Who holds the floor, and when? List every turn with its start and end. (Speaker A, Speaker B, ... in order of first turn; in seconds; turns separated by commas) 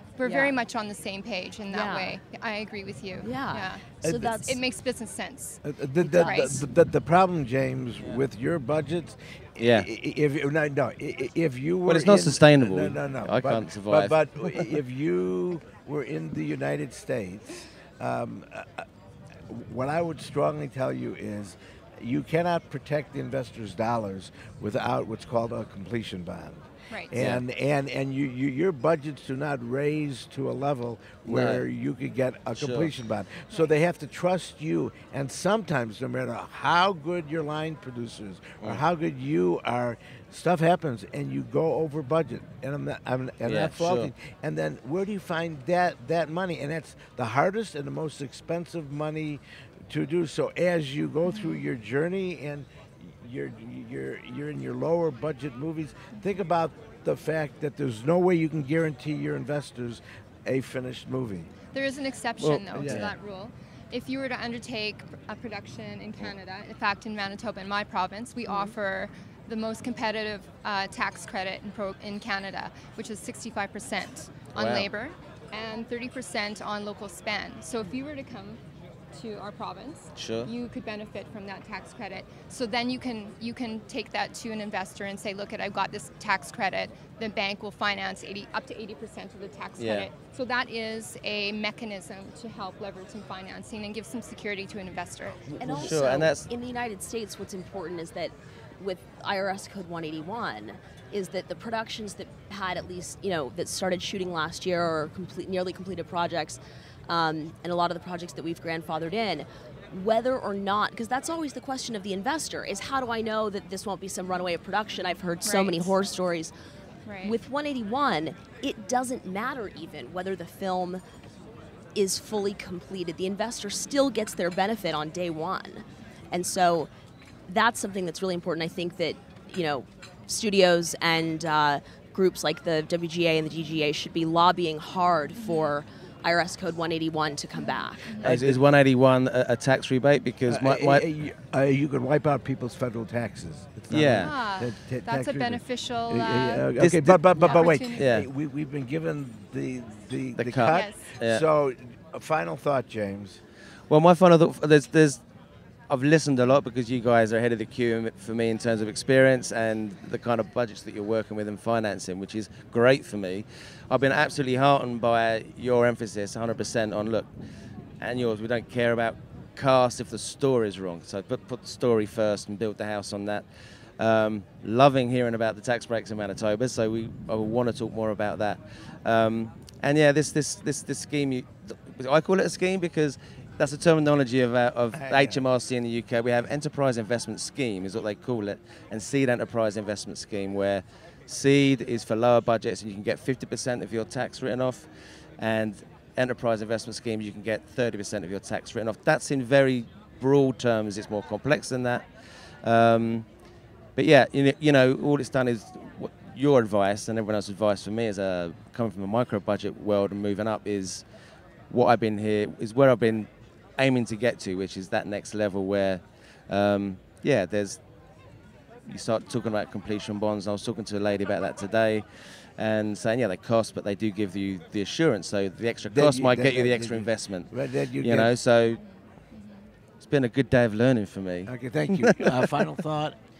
Speaker A: 0.2-3.9, Speaker B: 0.2-0.6, Speaker B: 1.7-2.2, Speaker B: 3.2-4.6, Speaker C: 4.0-4.4, Speaker A: 4.4-5.6, Speaker C: 5.6-18.9, Speaker B: 6.0-6.6, Speaker A: 6.2-6.6, Speaker D: 8.0-8.2, Speaker D: 9.6-9.9, Speaker D: 11.9-14.8, Speaker C: 19.5-61.5, Speaker A: 26.9-27.2, Speaker D: 27.2-27.4, Speaker D: 31.2-31.6, Speaker D: 32.5-32.9, Speaker D: 43.4-44.1, Speaker A: 51.3-51.6, Speaker A: 61.7-78.6, Speaker D: 62.4-63.1, Speaker C: 62.7-63.1, Speaker B: 68.5-68.7, Speaker D: 74.5-74.9, Speaker A: 79.1-95.5, Speaker D: 80.2-80.5, Speaker D: 89.8-90.1, Speaker C: 95.6-96.0, Speaker B: 95.6-116.5, Speaker D: 95.6-96.5, Speaker A: 115.5-116.0, Speaker A: 117.0-117.4, Speaker B: 117.2-121.0, Speaker B: 122.0-126.9, Speaker B: 127.5-138.3, Speaker A: 135.4-135.8, Speaker A: 137.5-138.3, Speaker D: 138.2-141.1, Speaker C: 138.2-138.6, Speaker C: 140.5-153.4, Speaker D: 143.9-144.4, Speaker A: 144.2-146.7, Speaker D: 146.8-148.3, Speaker A: 147.3-148.2, Speaker D: 150.4-151.4, Speaker A: 150.7-151.1, Speaker D: 153.9-155.2, Speaker D: 155.9-167.3, Speaker D: 168.0-173.5, Speaker D: 174.0-202.1, Speaker C: 184.9-185.4, Speaker D: 202.6-203.3, Speaker D: 204.0-211.1, Speaker D: 211.7-217.8, Speaker D: 218.9-222.1, Speaker D: 222.6-228.8, Speaker C: 225.9-228.3, Speaker A: 228.7-229.7, Speaker D: 230.0-232.5, Speaker C: 231.5-233.2